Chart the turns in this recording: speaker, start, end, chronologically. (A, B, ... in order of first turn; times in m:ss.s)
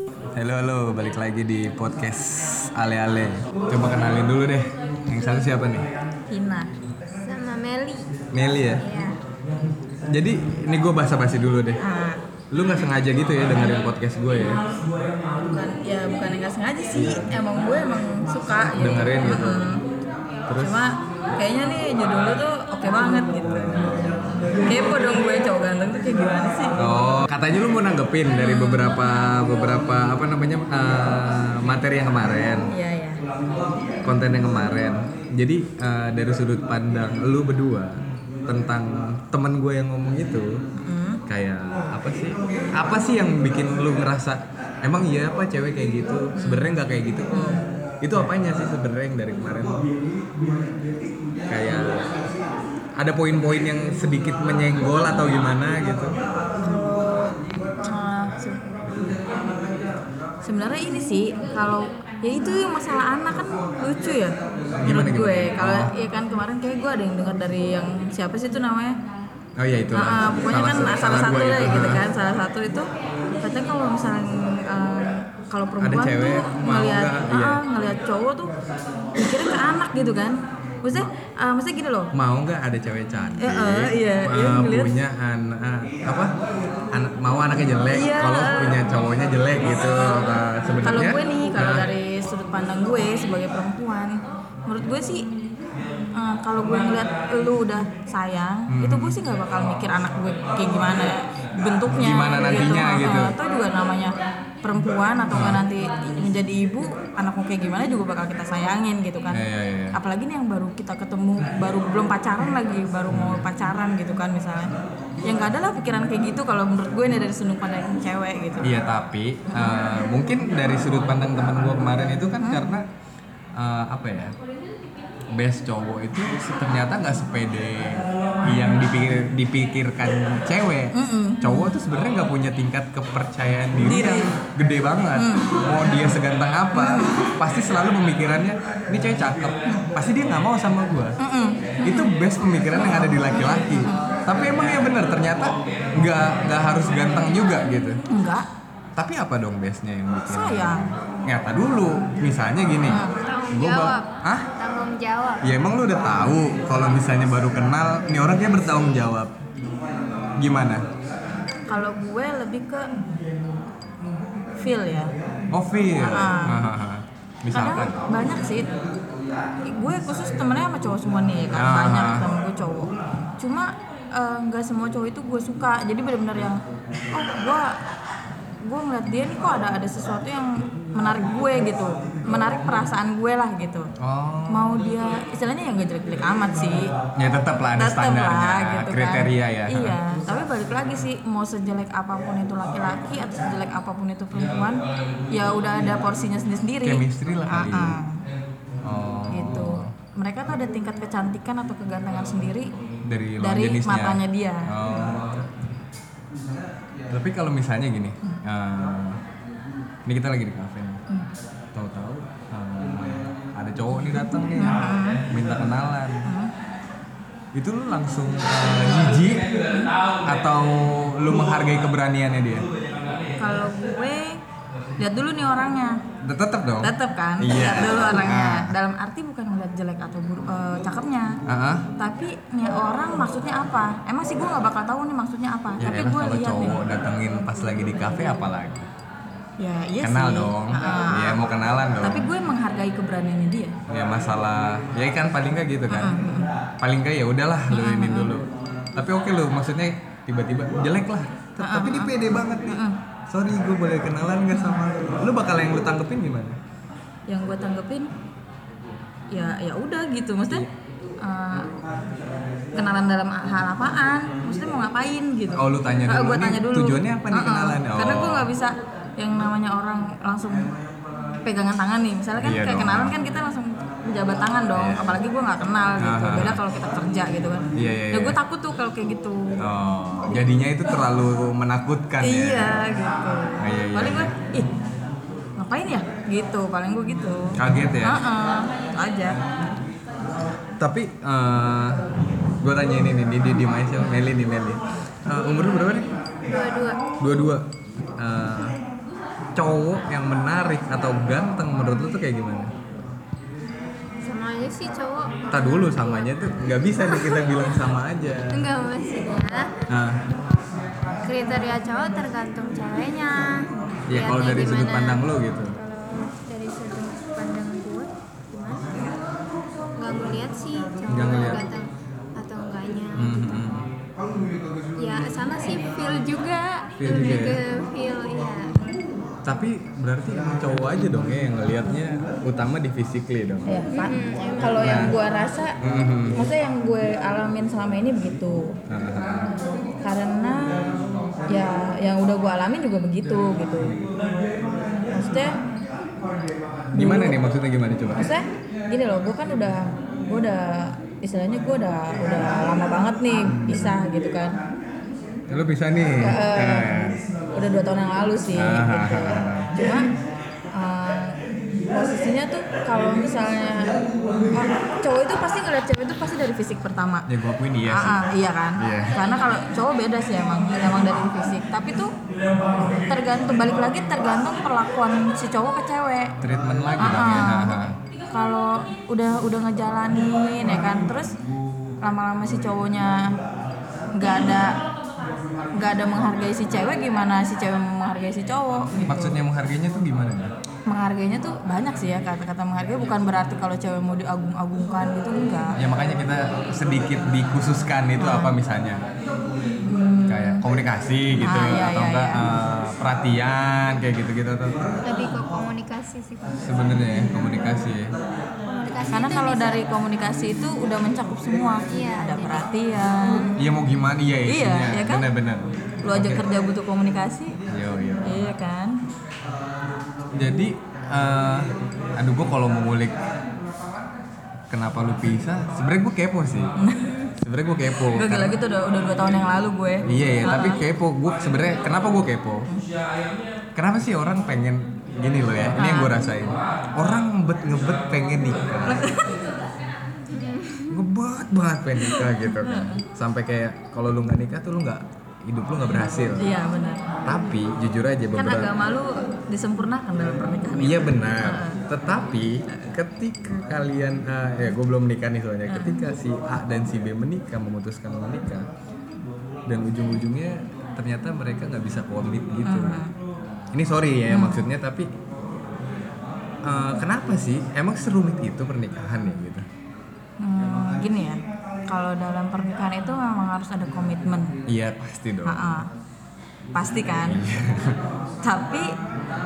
0:00.3-0:05.9 A
0:06.3-0:06.7 B
0:07.2-0:08.1 C
0:08.3-0:08.8 A
0:08.8-0:09.2 C
0:10.1-0:11.8 A
0:11.8-0:12.2 B
0:12.5-0:14.6 A
0:15.5-0:19.8 B
0:16.9-0:17.3 A
0:18.8-0:19.6 A
0:20.5-0:20.8 A
0:20.6-0:23.8 B
0:23.4-0:24.5 A
0:24.6-0:27.0 B
0:26.8-0:32.7 A
0:28.4-0:29.4 B
0:32.7-0:33.2 B
0:34.0-0:40.6 A
0:40.8-0:41.2 B
0:41.3-0:49.8 A
0:46.4-0:46.7 B
0:47.3-0:47.6 B
0:51.5-0:52.1 A
0:53.0-0:56.2 A
0:56.6-0:57.2 B
0:57.8-0:58.6 B
0:58.8-0:59.2 A
1:00.4-1:08.9 B
1:04.8-1:05.9 A
1:09.6-1:12.0 A
1:09.9-1:18.5 B
1:15.8-1:17.6 A
1:19.2-1:22.1 B
1:22.1-1:26.3 A
1:23.4-1:24.9 B
1:26.9-1:31.9 A
1:27.9-1:28.9 B
1:30.8-1:35.3 B
1:36.1-1:49.4 B
1:38.7-1:39.2 A
1:41.9-1:43.3 A
1:45.3-1:45.6 A
1:49.3-1:50.0 A
1:49.9-1:54.7 B
1:53.1-1:53.4 A
1:55.2-1:58.7 B
1:58.6-2:02.8 A
1:59.5-1:59.8 B
2:03.5-2:04.3 A
2:05.3-2:21.2 A
2:10.9-2:11.7 B
2:13.8-2:14.3 B
2:15.1-2:15.5 B
2:16.7-2:17.2 B
2:21.2-2:22.1 B
2:21.8-2:28.0 A
2:22.9-2:24.0 B
2:28.0-2:28.4 B
2:29.0-2:34.5 A
2:30.3-2:30.8 B
2:32.8-2:33.2 B
2:33.2-2:35.4 C
2:35.4-2:39.3 A
2:40.4-2:40.8 A
2:41.7-2:42.9 B
2:44.6-2:45.1 B
2:45.5-2:48.0 A
2:46.0-2:46.6 B
2:47.5-2:48.8 B
2:49.7-2:57.7 B
2:51.5-2:52.3 A
2:58.6-3:03.9 B
3:04.0-3:04.8 A
3:04.5-3:06.9 B
3:07.1-3:10.0 A
3:07.7-3:18.2 B
3:16.8-3:18.0 A
3:18.8-3:19.9 A
3:19.3-3:22.7 B
3:23.0-3:25.5 A
3:23.4-3:24.7 B
3:27.1-3:29.2 A
3:30.0-3:31.0 A
3:31.7-3:36.2 A
3:34.5-3:35.2 B
3:36.2-3:36.5 B
3:37.5-3:39.6 A
3:40.2-3:42.7 A
3:43.4-3:44.4 B
3:45.0-3:46.0 B
3:46.2-3:48.7 A
3:46.8-3:51.4 B
3:51.4-3:51.9 A
3:52.0-3:56.8 B
3:55.8-3:58.9 A
3:57.8-3:58.4 B
3:59.6-4:01.4 B
4:00.0-4:02.3 A
4:02.0-4:03.7 B
4:03.9-4:06.2 A
4:05.9-4:06.5 B
4:06.8-4:16.6 A
4:07.7-4:08.3 B
4:11.6-4:12.1 B
4:12.7-4:13.0 B
4:17.3-4:18.1 B
4:19.3-4:20.6 B
4:21.2-4:21.7 B
4:22.7-4:30.7 B
4:25.5-4:28.5 A
4:31.4-4:39.6 B
4:32.4-4:33.1 A
4:34.7-4:35.2 A
4:36.0-4:36.6 A
4:37.7-4:38.4 A
4:39.6-4:42.8 A
4:42.2-4:44.7 B
4:43.6-4:44.3 A
4:45.6-4:49.4 B
4:47.5-4:48.2 A
4:50.8-4:52.0 A
4:52.6-4:56.1 A
4:56.5-4:57.1 C
4:57.2-4:57.6 A
4:58.2-4:58.8 A
4:59.5-5:02.7 A
5:04.2-5:07.7 C
5:05.5-5:08.6 A
5:08.5-5:09.7 C
5:09.9-5:10.2 A
5:11.2-5:19.2 C
5:14.1-5:15.7 A
5:20.0-5:23.4 C
5:21.1-5:21.6 A
5:23.2-5:23.9 A
5:25.0-5:28.9 C
5:27.0-5:27.6 A
5:29.4-5:33.7 A
5:33.7-5:35.8 B
5:33.9-5:35.1 C
5:34.8-5:35.1 A
5:35.8-5:36.5 A
5:36.3-5:38.8 B
5:38.9-5:39.5 A
5:40.0-5:40.9 B
5:41.5-5:44.0 B
5:45.1-5:45.6 B
5:46.9-5:47.4 B
5:46.9-5:48.3 A
5:48.2-5:54.6 B
5:53.6-5:53.9 A
5:55.5-5:57.2 A
5:56.2-6:00.1 B
5:58.5-5:59.7 A
6:00.7-6:01.4 B
6:01.9-6:04.0 B
6:04.5-6:07.3 B
6:07.3-6:09.2 A
6:07.9-6:12.1 B
6:12.8-6:16.3 B
6:16.4-6:18.0 A
6:17.0-6:21.4 B
6:22.0-6:23.4 B
6:24.1-6:24.8 B
6:25.8-6:29.4 B
6:29.0-6:30.5 A
6:30.9-6:35.8 B
6:35.8-6:39.0 A
6:38.2-6:38.5 B
6:39.8-6:40.6 B
6:40.3-6:44.9 A
6:41.3-6:42.4 B
6:45.0-6:46.6 C
6:46.6-6:48.1 A
6:48.7-6:49.9 C
6:49.1-6:53.5 B
6:51.9-6:52.6 C
6:53.5-6:56.4 A
6:54.4-6:55.3 B
6:56.0-6:57.6 B
6:57.7-6:58.5 A
6:58.2-6:59.0 B
7:00.3-7:03.2 A
7:04.7-7:06.7 A
7:06.8-7:07.2 B
7:07.4-7:08.6 A
7:07.9-7:10.8 B
7:10.0-7:12.7 A
7:13.7-7:19.2 A
7:15.8-7:16.2 B
7:18.8-7:19.4 B
7:20.3-7:21.0 C
7:20.9-7:26.5 A
7:22.0-7:23.0 B
7:26.4-7:27.1 B
7:27.2-7:28.7 A
7:28.3-7:31.8 B
7:30.8-7:38.7 A
7:35.7-7:36.1 B
7:39.7-7:43.0 A
7:42.6-7:43.1 B
7:43.7-7:45.1 A
7:44.3-7:44.7 B
7:46.6-7:49.6 A
7:50.4-7:54.6 B
7:54.7-7:55.8 A
7:55.4-7:55.9 B
7:56.7-7:57.4 B
7:57.2-7:58.0 A
7:58.4-7:58.9 B